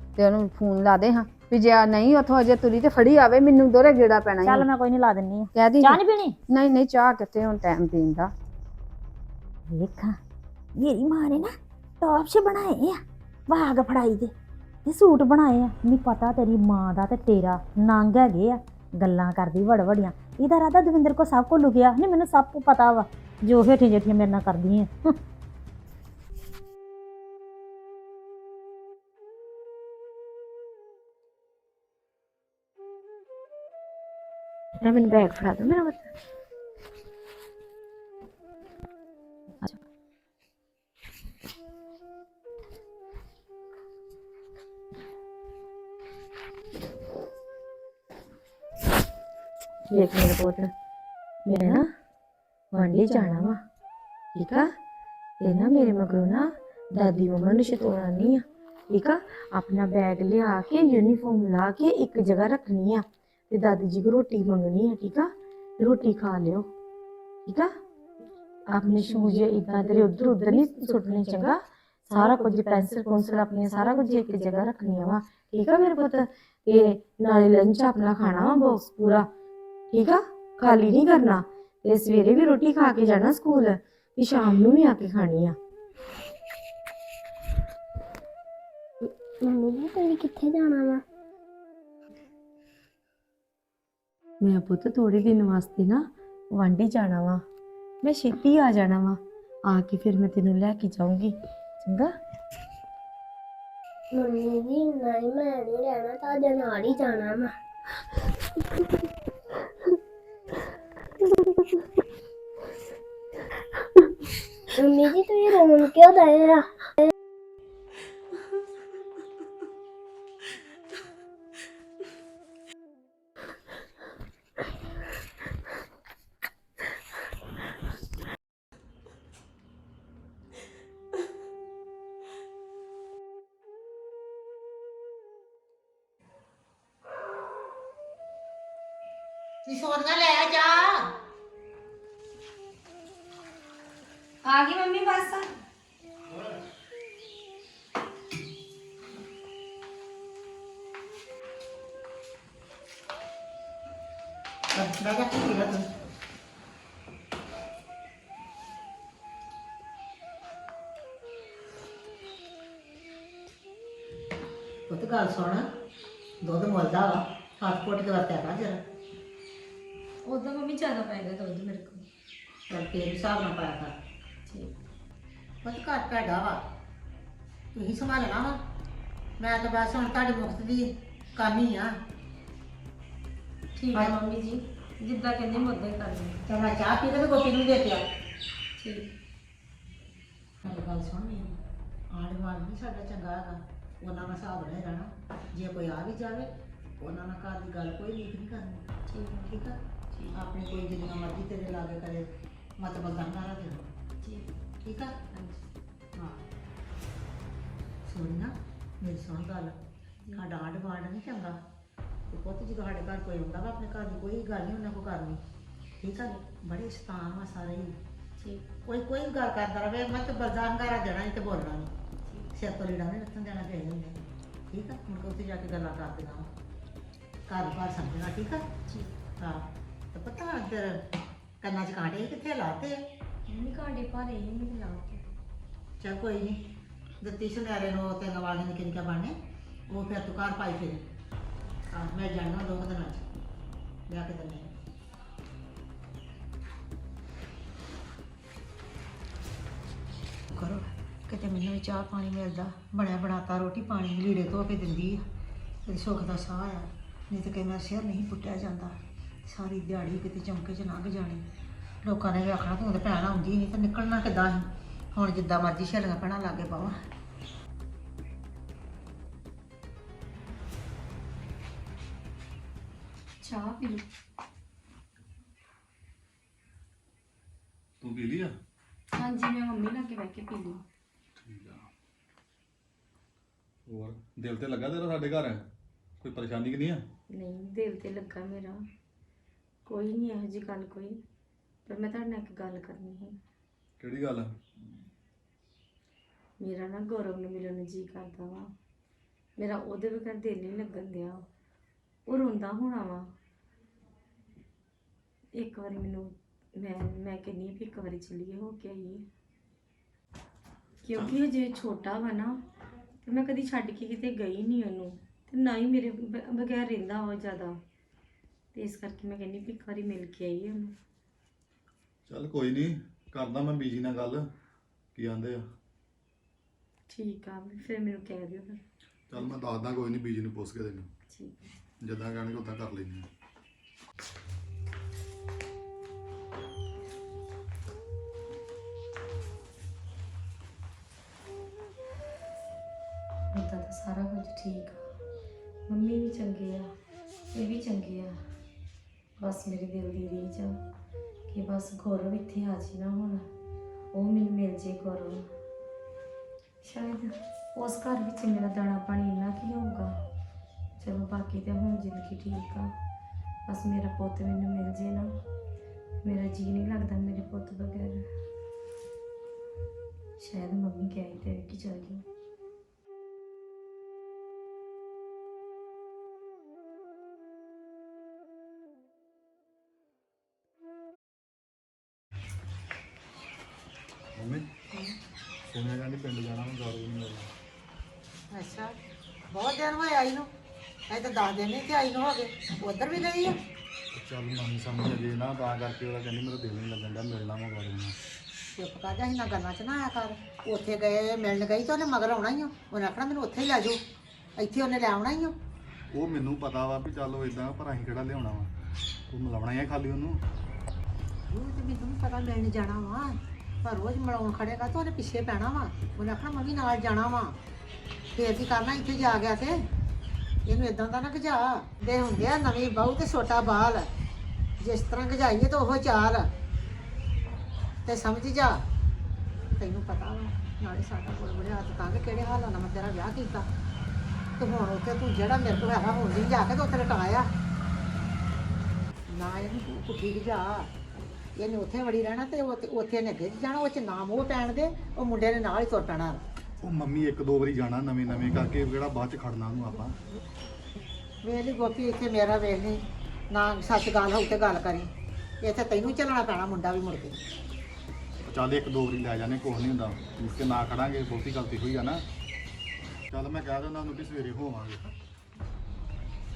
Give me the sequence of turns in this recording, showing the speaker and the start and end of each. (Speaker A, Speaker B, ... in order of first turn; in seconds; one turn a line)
Speaker A: 0.1-4.7
Speaker B: 4.4-6.3
Speaker A: 5.5-8.3
Speaker B: 9.7-10.2
Speaker B: 10.8-14.3
Speaker B: 14.8-25.1
Speaker C: 34.8-36.1
Speaker C: 49.9-50.7
Speaker C: 51.5-51.8
Speaker C: 52.7-53.5
Speaker C: 54.3-54.6
Speaker C: 55.4-66.7
Speaker C: 68.7-71.5
Speaker C: 72.1-79.2
Speaker C: 79.9-85.5
Speaker D: 89.0-91.0
Speaker C: 94.4-97.4
Speaker C: 98.0-102.1
Speaker D: 104.2-107.5
Speaker D: 114.8-117.1
Speaker E: 139.7-141.1
Speaker C: 144.4-145.5
Speaker E: 154.7-155.9
Speaker E: 164.9-165.7
Speaker E: 166.4-168.8
Speaker C: 170.2-172.0
Speaker E: 172.7-173.9
Speaker C: 174.5-174.7
Speaker E: 175.6-176.6
Speaker E: 177.7-178.6
Speaker E: 179.4-181.9
Speaker C: 183.8-186.4
Speaker E: 186.5-188.0
Speaker C: 188.8-189.1
Speaker E: 190.6-191.6
Speaker E: 192.1-196.5
Speaker E: 197.0-198.8
Speaker C: 199.1-199.5
Speaker E: 199.5-199.7
Speaker E: 200.3-203.9
Speaker C: 204.2-204.5
Speaker E: 204.8-205.1
Speaker C: 205.3-205.6
Speaker E: 206.1-206.4
Speaker E: 208.1-209.7
Speaker E: 210.3-211.6
Speaker E: 212.3-215.4
Speaker E: 216.0-217.9
Speaker C: 216.1-216.4
Speaker C: 218.4-218.7
Speaker E: 218.8-221.9
Speaker E: 222.5-224.2
Speaker E: 224.7-226.5
Speaker E: 227.5-228.6
Speaker C: 228.9-229.1
Speaker E: 229.4-231.0
Speaker E: 231.6-233.0
Speaker C: 233.5-235.2
Speaker E: 236.0-236.6
Speaker E: 237.2-239.3
Speaker E: 239.9-241.0
Speaker E: 241.9-243.2
Speaker E: 244.1-244.7
Speaker E: 250.5-255.2
Speaker E: 255.8-261.4
Speaker E: 262.0-266.9
Speaker C: 273.4-274.0
Speaker F: 278.0-278.5
Speaker C: 279.1-280.8
Speaker F: 281.4-281.9
Speaker F: 283.9-285.6
Speaker F: 286.2-287.0
Speaker C: 287.3-288.8
Speaker C: 289.9-291.2
Speaker C: 291.9-293.3
Speaker F: 294.0-294.5
Speaker C: 296.6-298.7
Speaker C: 299.6-301.4
Speaker C: 302.3-303.3
Speaker C: 305.6-309.2
Speaker C: 311.0-312.5
Speaker C: 313.2-317.8
Speaker C: 318.7-320.9
Speaker F: 322.3-324.4
Speaker F: 325.1-325.6
Speaker C: 327.1-328.8
Speaker F: 329.3-331.1
Speaker C: 331.3-331.6
Speaker F: 332.0-333.3
Speaker C: 343.5-345.0
Speaker C: 345.9-346.9
Speaker C: 347.5-348.4
Speaker C: 349.4-350.8
Speaker C: 351.5-353.4
Speaker C: 354.1-355.4
Speaker C: 356.8-360.1
Speaker C: 361.0-362.9
Speaker C: 363.7-365.3
Speaker C: 366.2-368.2
Speaker C: 370.4-372.2
Speaker F: 384.4-384.6
Speaker F: 385.7-387.5
Speaker E: 388.5-388.9
Speaker E: 389.5-390.5
Speaker E: 391.1-393.6
Speaker F: 394.1-398.1
Speaker E: 398.8-404.0
Speaker E: 404.6-405.5
Speaker F: 406.1-408.7
Speaker F: 409.3-410.4
Speaker E: 411.5-417.6
Speaker E: 418.3-419.9
Speaker E: 420.6-424.1
Speaker E: 424.8-426.5
Speaker E: 428.1-428.8
Speaker E: 429.8-433.6
Speaker E: 434.6-437.5
Speaker E: 439.3-440.9
Speaker E: 441.6-446.4
Speaker F: 446.8-450.2
Speaker E: 451.4-455.1
Speaker E: 455.6-457.4
Speaker F: 458.5-462.2
Speaker F: 463.3-465.1